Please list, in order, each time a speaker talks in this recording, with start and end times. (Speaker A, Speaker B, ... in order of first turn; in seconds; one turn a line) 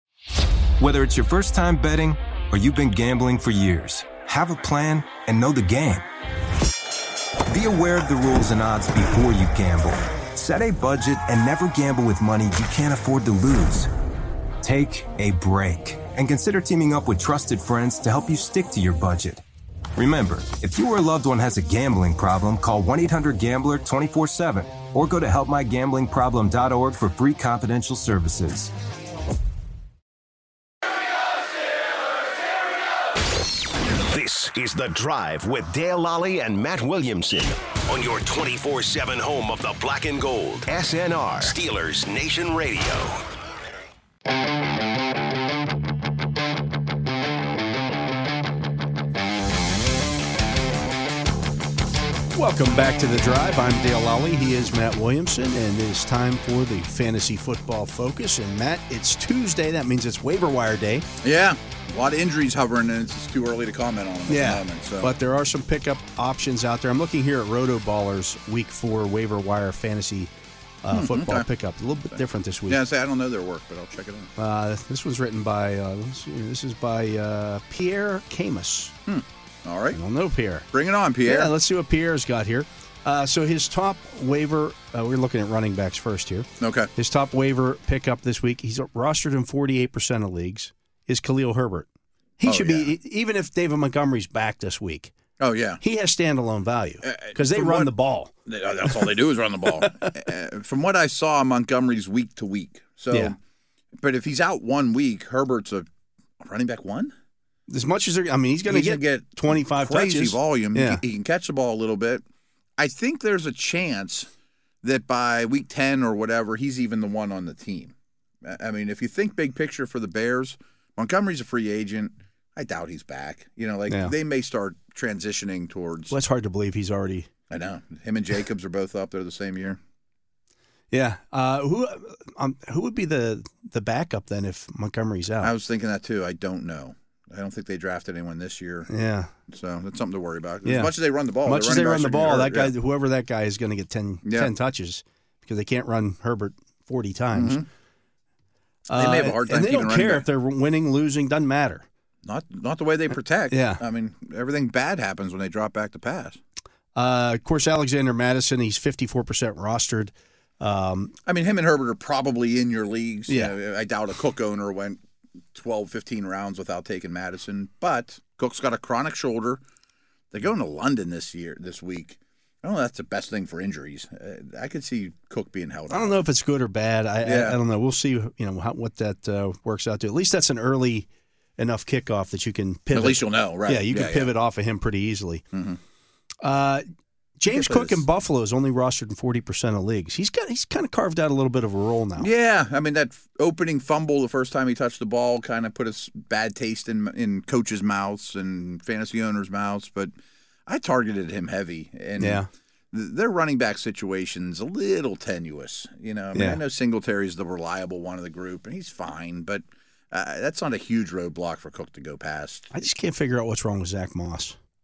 Speaker A: 0.8-6.0
Speaker A: 7.5-13.9
Speaker A: 14.6-19.4
Speaker A: 19.9-28.7
Speaker B: 34.0-43.2
Speaker C: 52.3-61.1
Speaker D: 61.2-65.1
Speaker C: 64.3-70.3
Speaker C: 70.8-72.8
Speaker D: 70.9-71.5
Speaker D: 72.1-74.3
Speaker C: 74.4-79.0
Speaker D: 79.1-80.0
Speaker C: 79.9-80.7
Speaker D: 80.7-81.5
Speaker C: 81.2-91.9
Speaker D: 86.6-86.9
Speaker C: 92.4-95.1
Speaker D: 92.5-92.9
Speaker D: 95.4-95.8
Speaker C: 95.8-98.3
Speaker D: 97.0-97.9
Speaker D: 98.5-103.4
Speaker D: 104.0-105.9
Speaker D: 106.4-107.1
Speaker C: 107.7-111.0
Speaker D: 108.7-112.2
Speaker D: 112.8-114.3
Speaker D: 114.8-126.2
Speaker C: 123.9-124.1
Speaker C: 126.1-127.3
Speaker D: 127.5-129.8
Speaker C: 130.9-135.5
Speaker D: 135.4-138.9
Speaker C: 138.9-139.3
Speaker D: 139.5-142.7
Speaker C: 140.6-140.9
Speaker C: 141.4-147.6
Speaker D: 144.2-144.5
Speaker D: 147.3-147.7
Speaker C: 148.9-151.9
Speaker D: 148.9-150.3
Speaker D: 152.2-156.4
Speaker C: 153.5-153.8
Speaker C: 156.9-161.1
Speaker D: 161.2-165.0
Speaker C: 163.3-163.5
Speaker D: 165.5-169.6
Speaker D: 170.3-176.2
Speaker C: 175.9-181.1
Speaker D: 177.2-177.6
Speaker C: 181.6-185.4
Speaker D: 182.9-184.3
Speaker D: 185.5-185.8
Speaker C: 186.4-186.9
Speaker C: 187.4-192.3
Speaker D: 187.5-188.0
Speaker D: 192.2-200.1
Speaker D: 200.7-212.7
Speaker C: 202.2-202.5
Speaker C: 206.3-206.6
Speaker C: 212.7-214.6